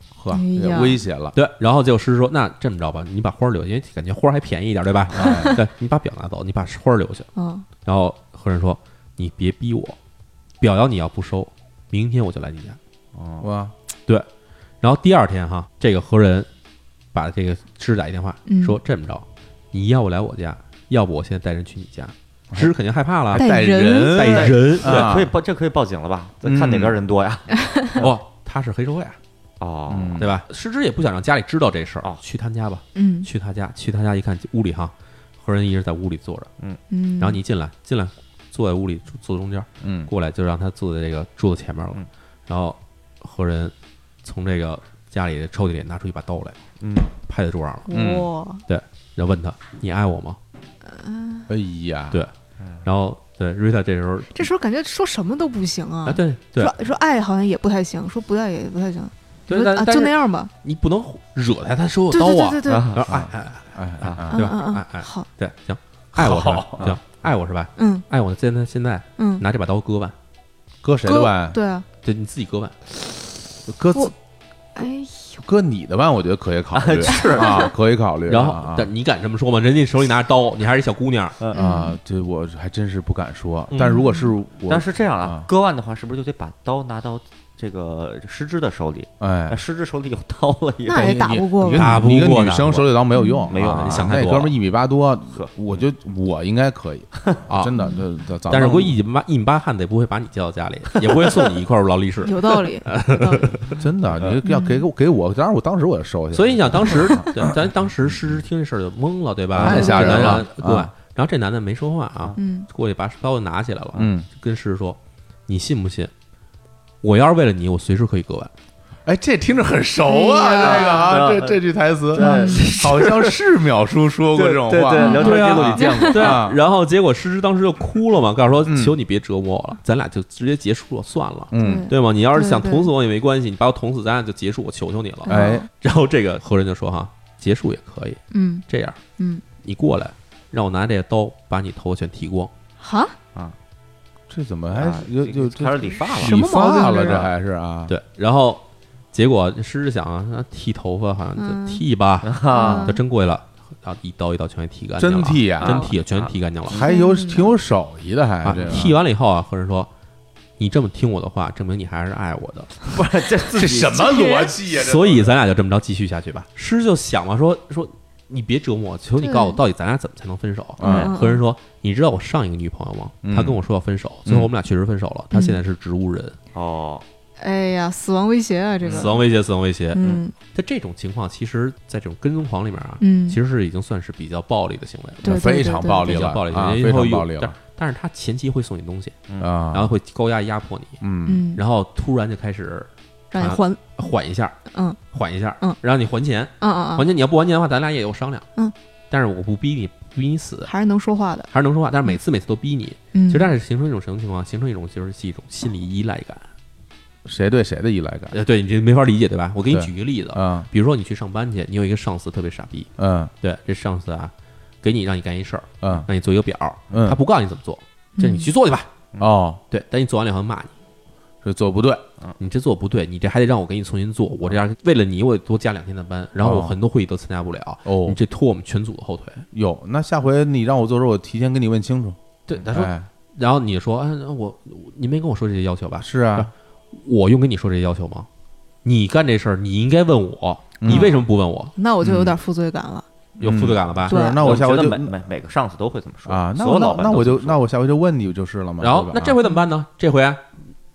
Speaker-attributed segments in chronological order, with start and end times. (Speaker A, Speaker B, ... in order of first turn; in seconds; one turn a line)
Speaker A: 0.1-1.4
Speaker B: 0.3-1.0
Speaker C: 1.3-7.3
Speaker A: 5.1-5.6
Speaker B: 7.3-7.7
Speaker C: 7.8-10.0
Speaker C: 10.6-12.8
Speaker D: 13.1-13.5
Speaker A: 13.4-13.7
Speaker C: 14.8-16.5
Speaker C: 17.1-23.5
Speaker B: 18.4-18.8
Speaker A: 23.3-25.3
Speaker B: 23.3-24.4
Speaker C: 24.1-25.1
Speaker D: 24.3-28.1
Speaker A: 26.4-26.9
Speaker C: 28.0-29.2
Speaker D: 29.6-30.2
Speaker A: 29.9-30.3
Speaker C: 30.2-36.5
Speaker B: 32.9-33.3
Speaker B: 36.9-37.4
Speaker C: 37.2-46.6
Speaker A: 39.8-40.1
Speaker D: 46.8-47.1
Speaker C: 47.2-47.9
Speaker B: 47.9-48.6
Speaker A: 47.9-48.3
Speaker C: 48.7-50.4
Speaker B: 50.8-51.5
Speaker A: 51.5-52.2
Speaker D: 52.6-52.8
Speaker C: 52.8-54.4
Speaker B: 54.3-60.5
Speaker C: 56.0-56.7
Speaker C: 59.5-70.1
Speaker B: 62.1-62.9
Speaker D: 62.6-63.0
Speaker A: 63.0-64.5
Speaker B: 64.3-65.3
Speaker A: 66.1-67.0
Speaker B: 67.8-68.0
Speaker B: 69.2-69.4
Speaker A: 70.8-71.6
Speaker B: 71.0-71.8
Speaker C: 72.0-72.8
Speaker A: 73.7-74.1
Speaker B: 74.7-75.4
Speaker A: 75.4-78.9
Speaker D: 76.7-77.7
Speaker C: 78.3-81.3
Speaker D: 81.4-81.6
Speaker A: 81.5-85.5
Speaker B: 81.5-82.0
Speaker D: 83.7-84.0
Speaker B: 83.8-84.3
Speaker D: 84.7-91.3
Speaker A: 89.2-89.6
Speaker B: 90.8-92.0
Speaker A: 90.9-99.0
Speaker C: 91.7-92.9
Speaker B: 93.1-93.5
Speaker D: 93.5-94.5
Speaker C: 93.6-94.5
Speaker D: 95.3-95.8
Speaker B: 97.8-98.0
Speaker C: 98.5-103.8
Speaker D: 101.0-101.2
Speaker B: 102.2-103.5
Speaker A: 103.8-107.6
Speaker B: 104.4-104.9
Speaker C: 106.3-116.1
Speaker A: 109.5-110.9
Speaker B: 109.6-110.4
Speaker B: 112.4-112.7
Speaker A: 114.0-114.3
Speaker C: 117.0-118.5
Speaker A: 119.0-126.6
Speaker B: 120.0-121.2
Speaker D: 120.5-121.6
Speaker D: 122.1-123.4
Speaker B: 122.2-122.9
Speaker D: 124.3-126.1
Speaker B: 125.0-126.4
Speaker C: 125.2-139.0
Speaker A: 128.6-128.9
Speaker A: 131.5-131.9
Speaker B: 131.6-132.9
Speaker B: 135.2-135.7
Speaker A: 135.3-135.7
Speaker B: 138.3-138.7
Speaker B: 139.2-139.4
Speaker C: 139.6-142.5
Speaker B: 142.8-143.2
Speaker A: 144.3-147.9
Speaker D: 144.7-147.3
Speaker B: 146.1-147.2
Speaker C: 147.9-156.8
Speaker B: 151.4-151.8
Speaker D: 152.2-152.9
Speaker B: 152.5-153.0
Speaker A: 155.0-155.9
Speaker D: 155.6-156.9
Speaker A: 156.7-158.9
Speaker B: 156.8-157.5
Speaker C: 158.4-159.9
Speaker C: 160.6-162.7
Speaker D: 162.8-164.2
Speaker A: 163.5-165.3
Speaker B: 164.0-164.5
Speaker C: 164.7-176.4
Speaker B: 169.2-169.6
Speaker A: 170.8-171.1
Speaker B: 170.8-171.4
Speaker D: 170.8-171.1
Speaker A: 173.2-173.6
Speaker B: 175.3-175.6
Speaker D: 176.5-177.0
Speaker B: 177.4-179.2
Speaker D: 178.8-179.1
Speaker C: 178.8-180.0
Speaker B: 179.9-180.3
Speaker C: 180.5-189.2
Speaker B: 183.0-183.4
Speaker B: 185.2-186.2
Speaker A: 185.2-187.6
Speaker A: 189.4-189.9
Speaker C: 189.7-191.0
Speaker A: 191.0-191.5
Speaker B: 191.2-191.6
Speaker C: 191.5-194.6
Speaker B: 193.3-193.8
Speaker B: 194.7-195.0
Speaker C: 195.1-198.5
Speaker B: 196.6-197.1
Speaker C: 199.1-200.7
Speaker B: 200.7-201.5
Speaker C: 201.5-206.5
Speaker B: 203.1-203.5
Speaker A: 207.2-208.4
Speaker C: 208.3-212.9
Speaker A: 209.7-210.7
Speaker A: 213.0-213.3
Speaker C: 213.4-218.9
Speaker A: 215.8-216.1
Speaker A: 216.9-217.2
Speaker B: 218.2-218.5
Speaker A: 219.2-219.6
Speaker C: 219.7-220.7
Speaker A: 221.4-222.0
Speaker C: 222.4-229.4
Speaker A: 226.4-226.8
Speaker A: 227.8-228.2
Speaker A: 229.5-233.1
Speaker C: 232.5-238.3
Speaker A: 236.0-236.5
Speaker C: 238.8-241.7
Speaker A: 240.8-241.1
Speaker B: 240.8-243.1
Speaker A: 242.0-242.4
Speaker C: 243.4-244.2
Speaker A: 243.4-245.1
Speaker B: 244.1-244.4
Speaker D: 244.3-247.6
Speaker A: 246.2-249.3
Speaker C: 248.8-250.4